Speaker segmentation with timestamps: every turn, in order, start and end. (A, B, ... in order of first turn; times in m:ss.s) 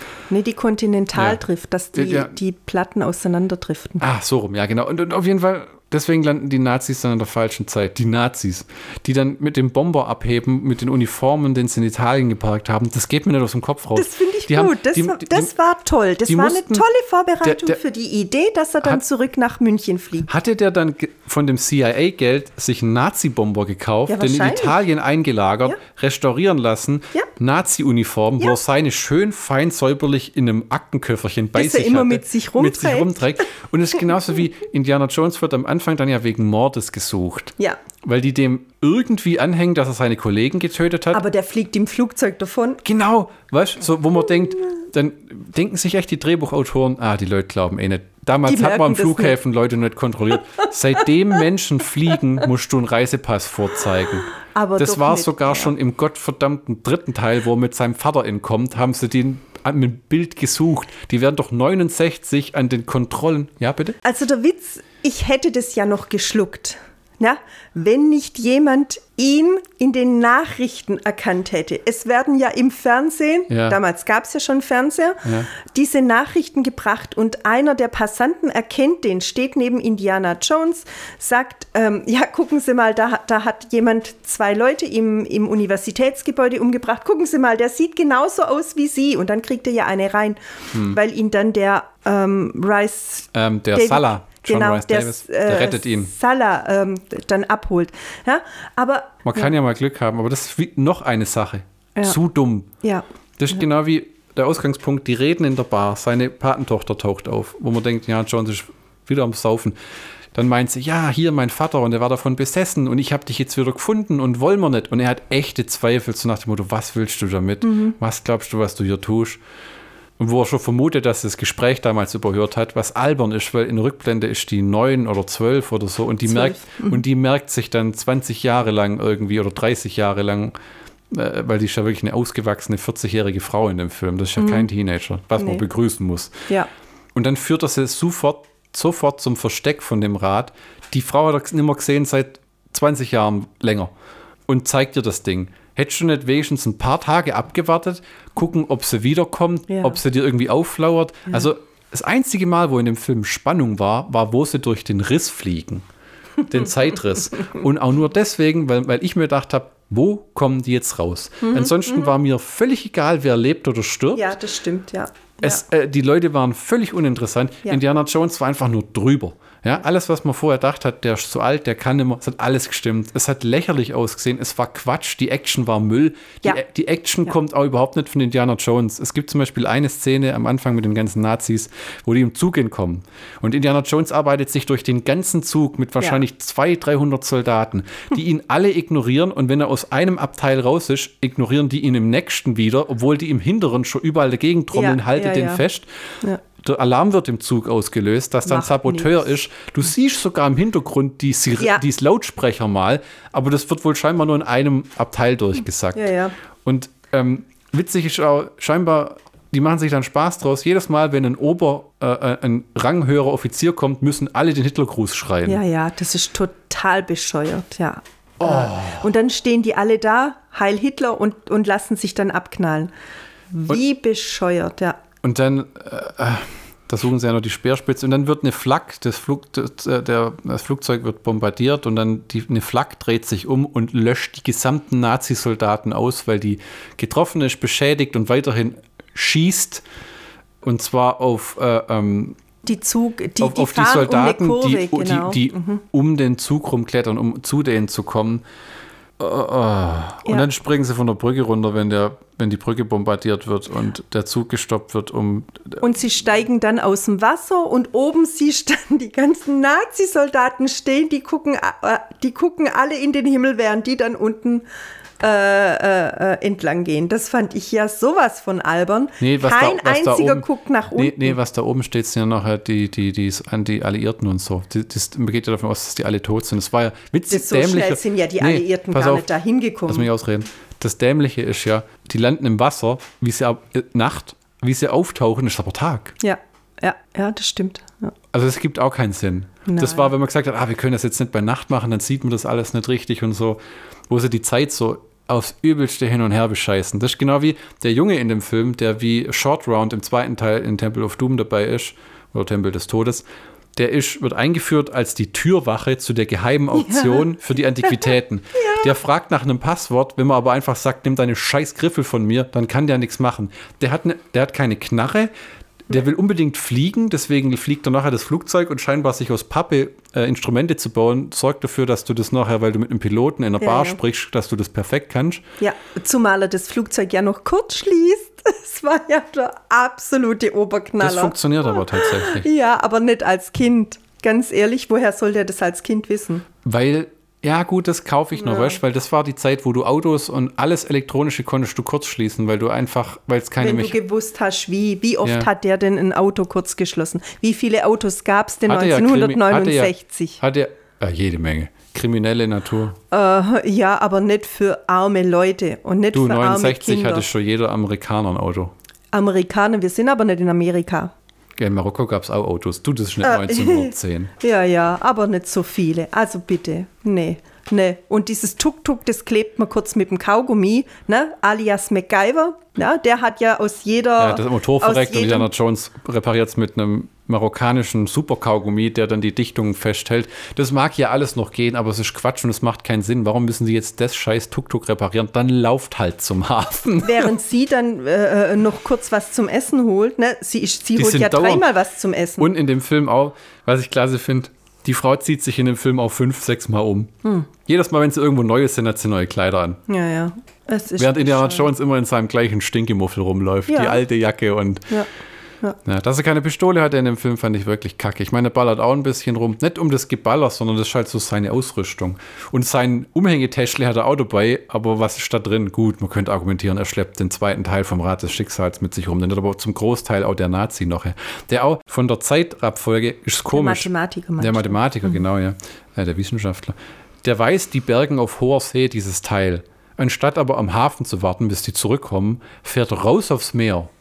0:00.3-0:04.0 A
0:01.1-0:01.4 B
0:01.9-0:02.3 B
0:04.0-0:15.5 B
0:13.9-0:20.3 A
0:16.3-0:16.8 B
0:17.4-0:17.8 B
0:20.3-0:41.2 B
0:24.1-0:24.8 A
0:31.5-0:33.1 A
0:41.1-0:42.8 A
0:42.8-1:04.0 B
0:48.4-0:49.4 A
0:54.4-0:55.7 A
1:04.0-1:39.5 A
1:13.5-1:13.8 B
1:15.2-1:15.5 B
1:33.3-1:36.1 B
1:39.2-1:42.7 B
1:43.4-1:49.8 B
1:50.3-1:59.4 B
1:57.6-1:58.0 A
2:00.2-2:10.5 B
2:06.2-2:07.0 A
2:11.1-2:16.3 B
2:14.4-2:14.7 A
2:15.4-2:15.6 A
2:17.1-2:23.9 B
2:24.5-2:35.8 B
2:29.7-2:30.0 A
2:36.4-2:44.4 B
2:41.4-2:42.1 A
2:44.1-2:45.6 A
2:45.4-3:15.9 B
3:14.7-3:15.6 A
3:16.5-3:26.1 B
3:18.4-3:19.2 A
3:25.9-3:26.3 A
3:26.6-3:35.6 B
3:35.4-3:42.9 A
3:38.4-3:39.1 B
3:43.5-3:45.0 A
3:45.2-3:59.8 B
4:00.6-4:02.4 B
4:02.6-4:05.8 A
4:03.4-4:08.4 B
4:09.2-4:15.8 B
4:15.8-4:24.6 A
4:25.2-4:31.4 A
4:29.2-4:39.3 B
4:37.3-4:40.1 A
4:39.9-4:46.1 B
4:46.2-4:48.1 A
4:48.3-4:53.6 B
4:49.6-4:50.1 A
4:54.1-5:03.2 B
5:03.8-5:15.3 B
5:06.8-5:07.2 A
5:07.9-5:08.9 A
5:15.9-5:25.4 B
5:23.6-5:24.0 A
5:25.6-5:31.3 A
5:31.0-5:32.4 B
5:31.9-5:36.4 A
5:36.6-5:44.0 B
5:38.4-5:38.8 A
5:43.6-5:50.4 A
5:45.2-5:45.5 B
5:48.7-5:53.0 B
5:53.1-5:57.2 A
5:56.1-5:58.7 B
5:59.1-6:01.1 A
6:01.6-6:04.3 B
6:03.2-6:15.5 A
6:14.2-6:27.3 B
6:27.0-6:32.5 A
6:31.0-6:31.6 B
6:32.4-6:37.1 B
6:37.6-6:39.8 B
6:39.9-6:41.7 A
6:41.0-6:44.9 B
6:43.7-6:44.0 A
6:45.8-7:13.9 B
7:03.5-7:05.1 A